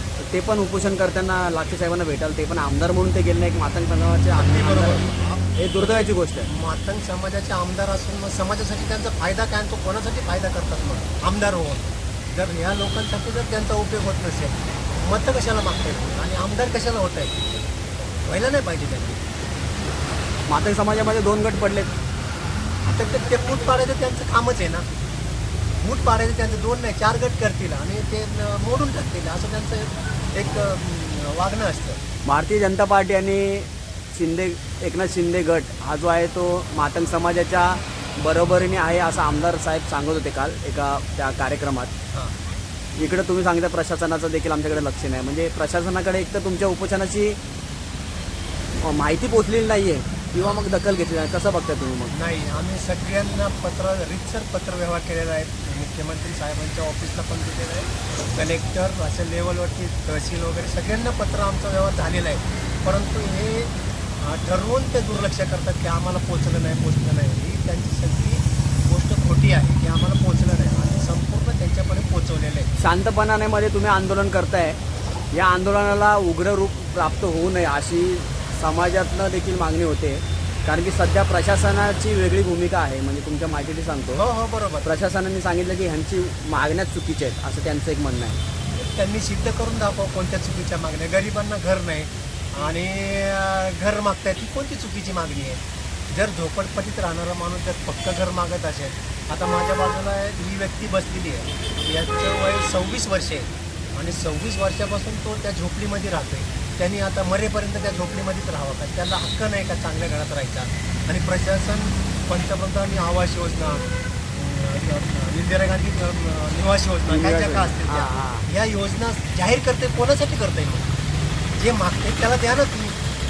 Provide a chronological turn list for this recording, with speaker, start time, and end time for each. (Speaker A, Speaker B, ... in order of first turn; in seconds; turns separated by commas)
Speaker A: 0.2-6.5, Speaker B: 4.3-17.4, Speaker B: 18.2-19.2, Speaker A: 20.5-21.9, Speaker B: 22.8-24.9, Speaker B: 25.8-32.0, Speaker A: 32.2-41.9, Speaker A: 43.0-47.4, Speaker A: 48.8-52.1, Speaker B: 50.3-50.6, Speaker B: 52.1-72.7, Speaker A: 72.8-74.8, Speaker A: 75.3-84.2, Speaker B: 84.1-84.9, Speaker A: 84.8-88.4, Speaker B: 88.7-120.9, Speaker A: 117.1-118.5, Speaker B: 121.5-123.0